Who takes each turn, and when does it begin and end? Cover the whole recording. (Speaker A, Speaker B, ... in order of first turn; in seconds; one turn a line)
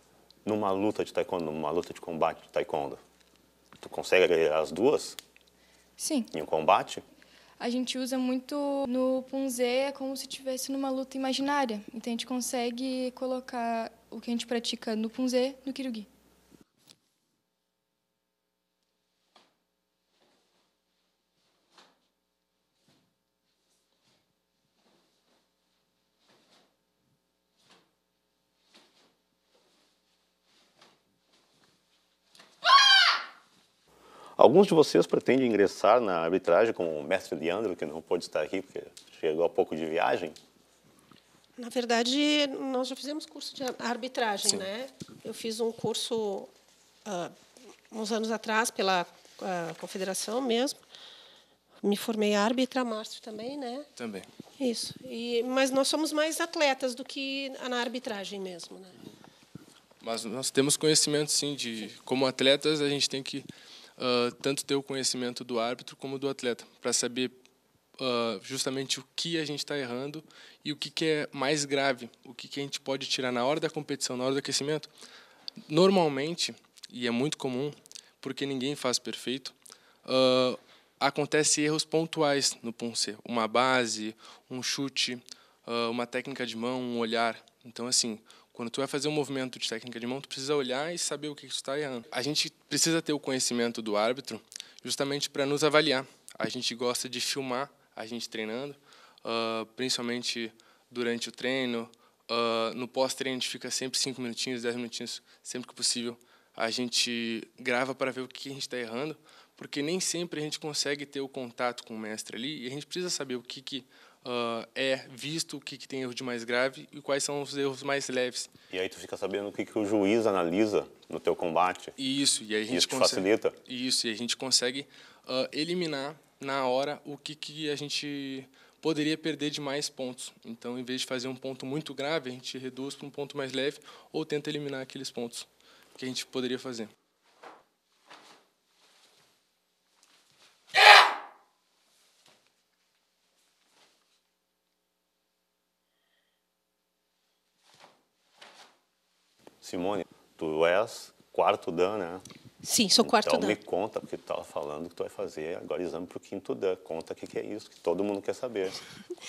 Speaker A: 0.5-3.0
Speaker A: 3.8-5.2
Speaker B: 6.0-6.3
Speaker A: 6.3-7.0
Speaker B: 7.6-16.1
Speaker A: 34.4-40.4
Speaker C: 41.6-46.5
Speaker C: 47.0-50.8
Speaker C: 51.8-53.9
Speaker D: 54.0-54.3
Speaker C: 54.6-59.0
Speaker D: 60.0-63.5
Speaker D: 64.0-67.3
Speaker D: 68.0-74.9
Speaker D: 75.7-79.5
Speaker D: 80.0-118.5
Speaker A: 118.7-122.0
Speaker D: 122.0-136.9
Speaker A: 122.7-123.6
Speaker A: 149.6-152.2
Speaker C: 152.6-153.6
Speaker A: 153.0-158.8